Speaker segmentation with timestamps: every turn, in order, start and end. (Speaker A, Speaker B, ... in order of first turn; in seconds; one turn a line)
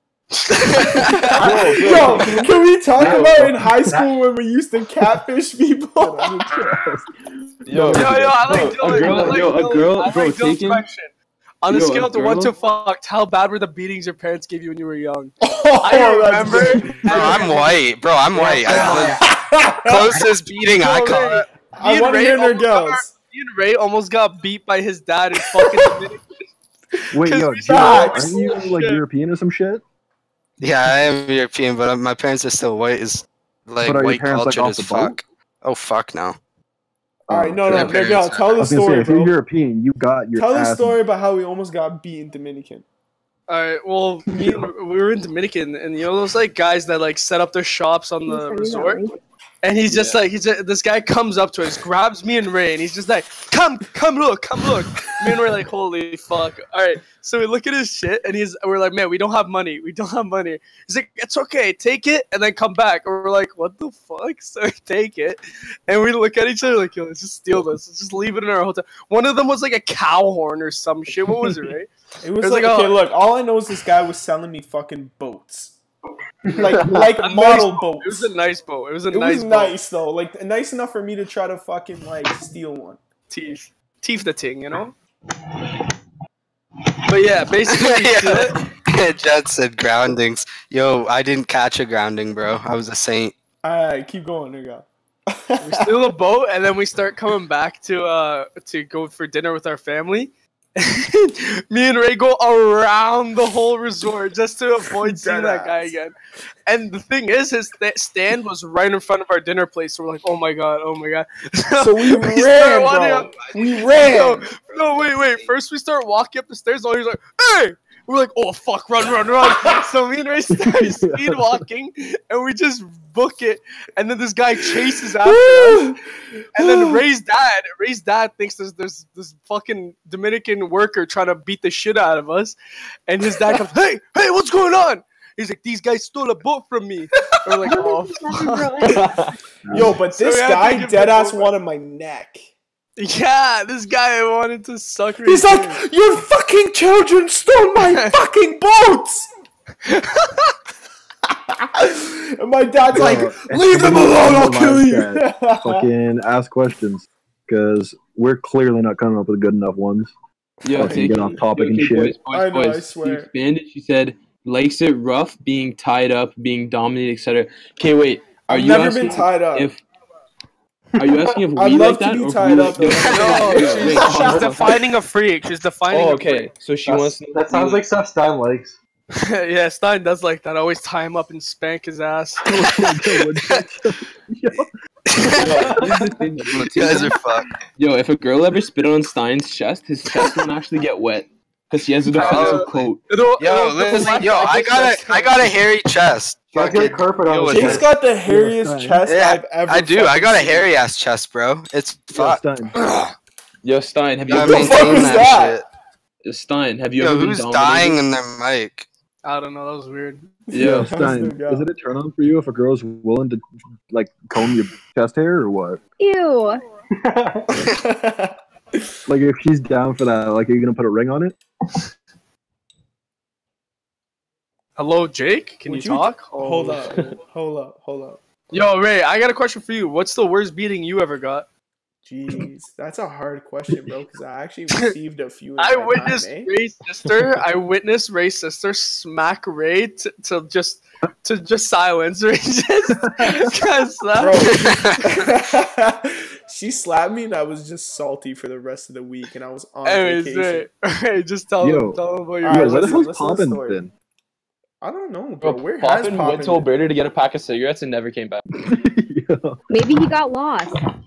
Speaker A: 0.4-1.3
Speaker B: 0.6-1.1
Speaker C: 0.8-6.8
Speaker D: 1.4-3.3
Speaker E: 1.5-2.3
Speaker F: 1.7-2.2
Speaker E: 3.0-4.1
Speaker F: 6.4-7.0
Speaker D: 7.7-10.8
Speaker F: 7.7-9.5
Speaker A: 7.9-17.8
Speaker D: 11.7-12.5
Speaker C: 15.4-17.5
Speaker B: 17.0-19.2
Speaker E: 18.3-19.2
Speaker C: 18.7-20.1
Speaker B: 19.8-21.4
Speaker A: 20.7-26.3
Speaker C: 21.7-23.1
Speaker C: 25.4-25.9
Speaker F: 27.1-29.8
Speaker A: 27.2-29.0
Speaker C: 27.6-28.6
Speaker B: 30.6-36.4
Speaker F: 33.8-35.2
Speaker F: 37.3-38.0
Speaker C: 37.3-39.3
Speaker B: 37.7-38.6
Speaker F: 38.6-41.0
Speaker C: 40.3-42.8
Speaker A: 43.5-49.0
Speaker G: 48.2-49.2
Speaker A: 49.6-71.9
Speaker D: 49.9-50.2
Speaker C: 72.2-75.8
Speaker A: 72.4-73.0
Speaker C: 76.5-78.3
Speaker E: 76.5-76.9
Speaker A: 77.2-79.8
Speaker C: 79.1-83.0
Speaker A: 83.3-84.9
Speaker A: 87.1-88.6
Speaker B: 87.7-93.3
Speaker C: 93.6-96.0
Speaker A: 95.6-106.1
Speaker C: 105.0-105.9
Speaker A: 106.7-126.0
Speaker C: 111.8-114.5
Speaker F: 120.5-121.6
Speaker C: 125.2-126.0
Speaker A: 126.5-132.5
Speaker C: 126.5-127.0
Speaker A: 133.1-138.9
Speaker G: 137.7-139.0
Speaker D: 138.9-139.3
Speaker F: 139.7-139.9
Speaker C: 139.7-142.5
Speaker A: 140.1-141.5
Speaker A: 143.0-145.8
Speaker C: 145.2-149.3
Speaker A: 147.8-148.1
Speaker A: 149.8-150.5
Speaker C: 151.3-155.8
Speaker F: 152.9-160.1
Speaker D: 160.6-169.8
Speaker C: 160.7-161.2
Speaker F: 160.7-162.2
Speaker C: 162.3-163.3
Speaker C: 168.5-169.7
Speaker D: 171.0-174.7
Speaker C: 171.6-174.7
Speaker A: 173.0-176.5
Speaker E: 174.1-174.5
Speaker D: 175.9-177.8
Speaker E: 176.8-178.8
Speaker A: 179.1-182.5
Speaker F: 182.4-184.7
Speaker B: 185.1-185.4
Speaker D: 185.4-187.1
Speaker B: 186.5-187.5
Speaker D: 187.8-193.0
Speaker B: 192.1-192.7
Speaker A: 192.1-195.5
Speaker B: 193.4-197.8
Speaker E: 196.5-197.9
Speaker C: 197.5-200.7
Speaker F: 198.2-199.0
Speaker B: 199.1-202.4
Speaker F: 202.1-202.7
Speaker D: 203.6-205.3
Speaker B: 204.3-205.6
Speaker C: 204.4-205.6
Speaker D: 206.2-208.0
Speaker B: 207.0-208.9
Speaker A: 209.2-210.3
Speaker C: 210.5-211.7
Speaker D: 210.5-210.9
Speaker F: 210.6-215.8
Speaker G: 216.0-216.6
Speaker E: 217.0-217.6
Speaker C: 217.6-218.8
Speaker F: 219.1-221.3
Speaker A: 224.8-226.8
Speaker C: 225.7-228.2
Speaker A: 228.5-231.4
Speaker C: 232.1-236.5
Speaker A: 235.6-244.6
Speaker C: 244.1-250.7
Speaker B: 244.5-245.0
Speaker A: 249.8-253.1
Speaker F: 251.6-253.9
Speaker C: 252.4-253.8
Speaker C: 254.8-256.7
Speaker D: 255.4-258.4
Speaker F: 258.6-259.6
Speaker G: 259.7-260.8